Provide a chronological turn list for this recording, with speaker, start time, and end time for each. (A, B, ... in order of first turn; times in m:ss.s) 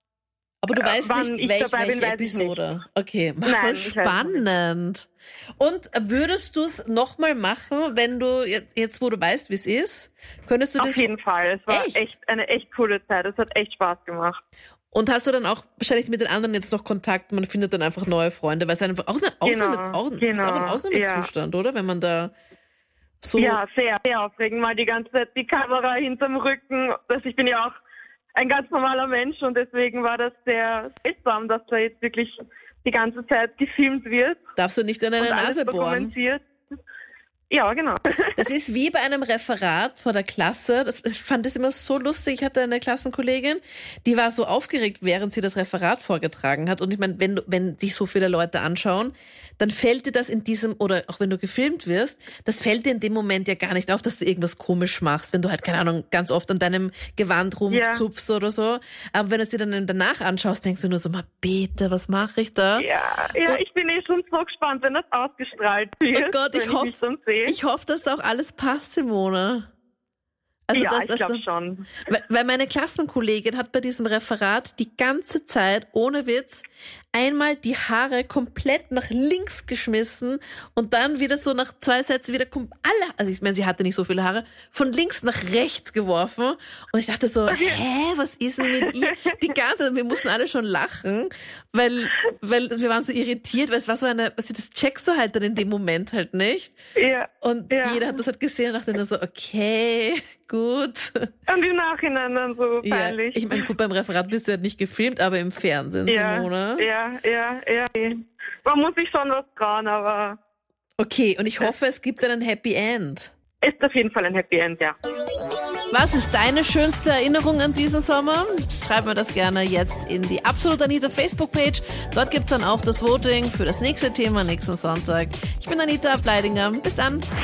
0:00.6-0:05.1 A
0:00.8-0:02.5 B
0:03.4-0:04.4 B
0:05.6-0:11.1 A
0:10.8-0:14.4 B
0:11.7-0:12.0 A
0:14.9-0:22.3 A
0:19.4-0:21.3 B
0:23.2-0:23.6 A
0:23.4-0:27.8 B
0:28.3-0:34.4 B
0:34.6-0:36.1 A
0:35.2-0:36.4 B
0:37.5-0:38.3 B
0:38.3-1:02.9 A
0:57.7-0:58.0 B
1:02.8-1:07.6 B
1:06.1-1:09.7 A
1:10.7-1:11.4 A
1:10.7-1:11.9 B
1:12.0-1:36.8 A
1:27.5-1:27.8 B
1:28.8-1:29.3 B
1:37.0-1:38.1 B
1:37.4-1:41.3 A
1:41.5-1:43.5 B
1:42.8-1:46.9 A
1:46.1-1:48.1 B
1:48.6-1:50.4 B
1:51.0-1:53.3 A
1:53.6-1:55.0 B
1:55.9-2:07.2 A